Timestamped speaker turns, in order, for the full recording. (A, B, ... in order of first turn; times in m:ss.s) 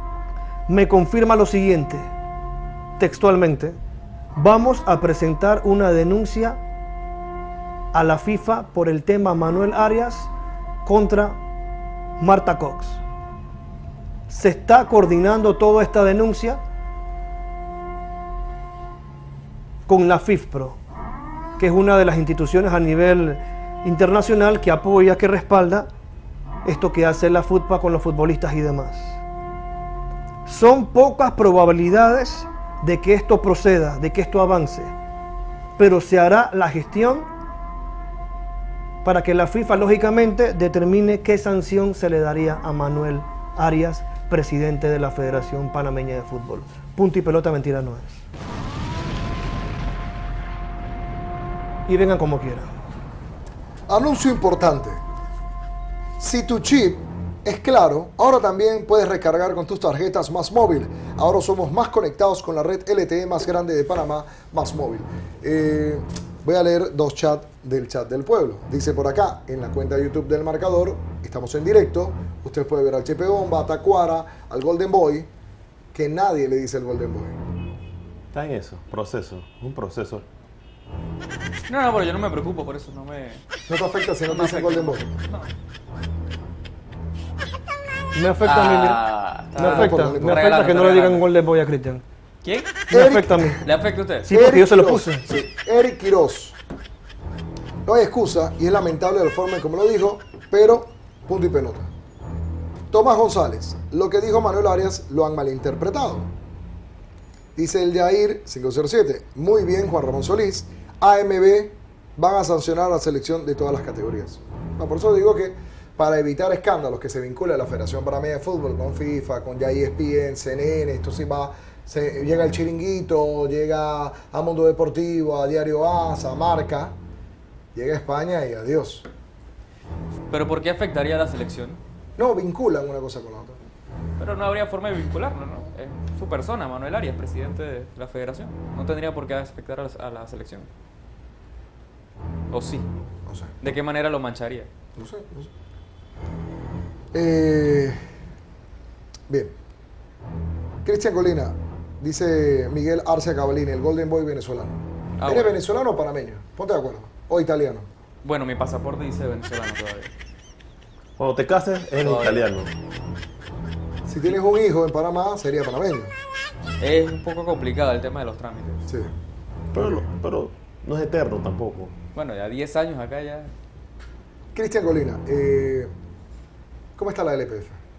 0:00.7-0:02.1 A
0:03.0-0:03.8 A
0:04.4-0:06.6 A
0:07.9-0:10.3 A
0:10.8-0:11.4 A
0:12.2-0:13.0 A
0:14.3-0:16.6 A
0:19.9-0:20.8 A
0:21.6-0:25.9 A
0:26.6-0:29.2 A
0:30.5-0:34.9 A
0:35.8-0:37.3 A
0:39.0-0:48.1 A
0:51.9-0:52.7 A
0:53.9-0:55.0 B
0:56.2-1:15.3 B
1:15.9-1:17.4 B
1:18.3-1:20.2 C
1:21.6-1:23.4 D
1:23.7-1:25.0 B
1:24.3-1:25.5 D
1:28.2-1:29.0 A
1:28.4-1:31.2 D
1:29.6-1:32.0 A
1:29.6-1:30.5 B
1:32.4-1:32.8 D
1:32.9-1:33.6 A
1:32.9-1:33.7 B
1:33.6-1:34.3 D
1:34.2-1:35.3 A
1:34.3-1:36.6 B
1:37.9-1:41.9 B
1:42.9-1:46.3 B
1:47.6-2:07.0 B
2:07.8-2:09.1 B
2:10.3-2:11.8 D
2:12.2-2:13.6 B
2:14.2-2:20.7 D
2:22.5-2:22.9 D
2:23.3-2:23.5 B
2:23.6-2:24.7 D
2:25.0-2:25.5 B
2:27.1-2:28.0 B
2:29.3-2:29.5 B
2:30.8-2:37.9 B
2:35.2-2:35.6 D
2:38.2-2:40.1 D
2:41.2-2:42.7 C
2:42.0-2:42.4 D
2:44.1-2:46.1 B
2:46.8-2:48.9 D
2:49.7-2:51.9 C
2:49.7-2:50.1 B
2:52.2-2:53.5 D
2:54.5-2:55.9 B
2:57.0-2:57.8 B